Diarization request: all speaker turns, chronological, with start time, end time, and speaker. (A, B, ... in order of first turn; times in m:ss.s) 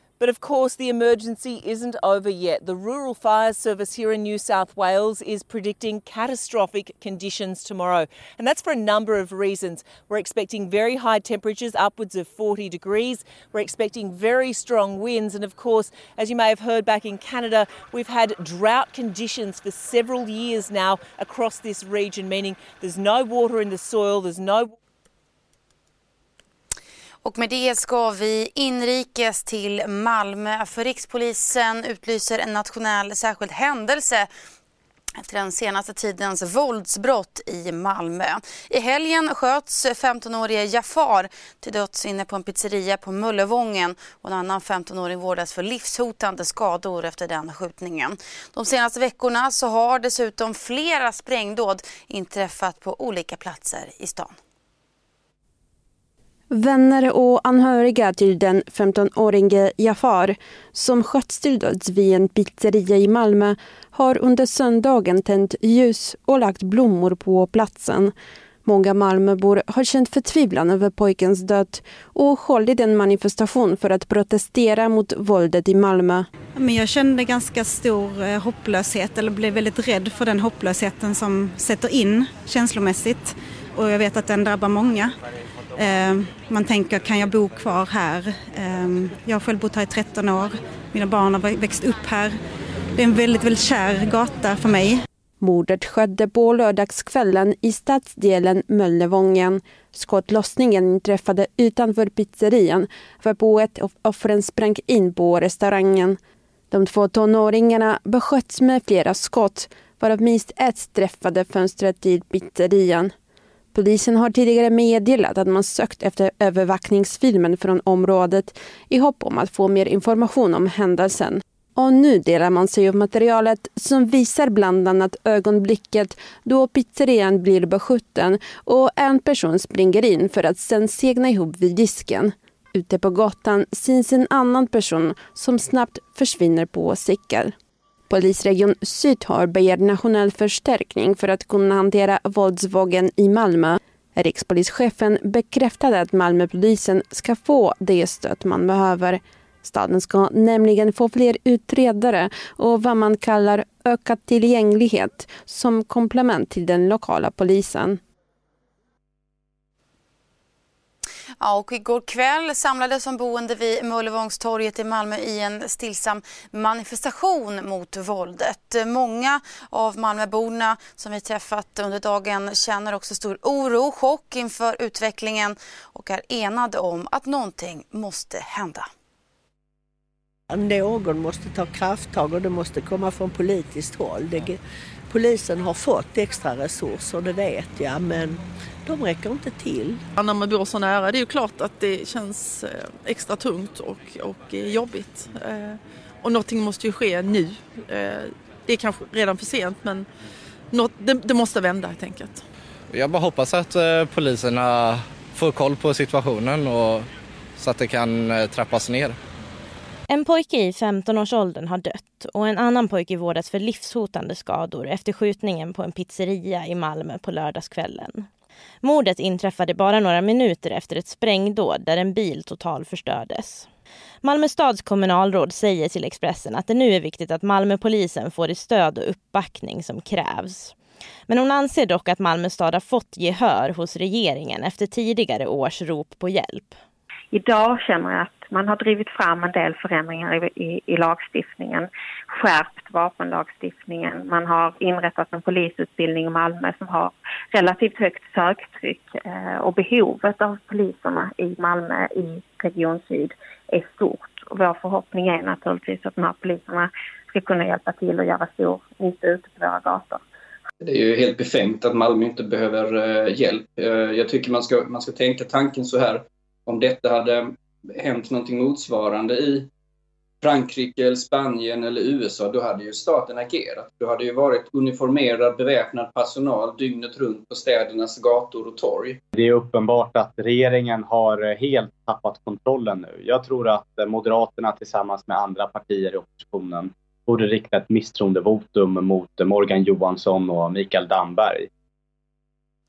0:00.2-0:24.7 A
0:27.2-0:34.3 B
0:35.2-0:54.3 B
0:56.5-1:08.1 C
1:08.6-1:16.3 C
1:16.5-1:25.1 D
1:25.8-1:32.3 D
1:33.0-1:34.9 D
1:35.4-1:46.2 C
1:46.7-1:53.1 C
1:53.7-2:17.5 C
2:18.1-2:38.0 C
2:41.4-2:58.9 B
3:00.5-3:10.0 E
3:10.2-3:20.1 F
3:20.7-3:22.4 F
3:22.9-3:29.2 G
3:30.1-3:38.3 H
3:38.8-3:43.7 H
3:44.2-3:50.7 H
3:51.3-3:56.8 H
3:57.3-4:20.2 I
4:20.8-4:29.7 J
4:30.4-4:39.2 J
4:39.3-4:51.7 K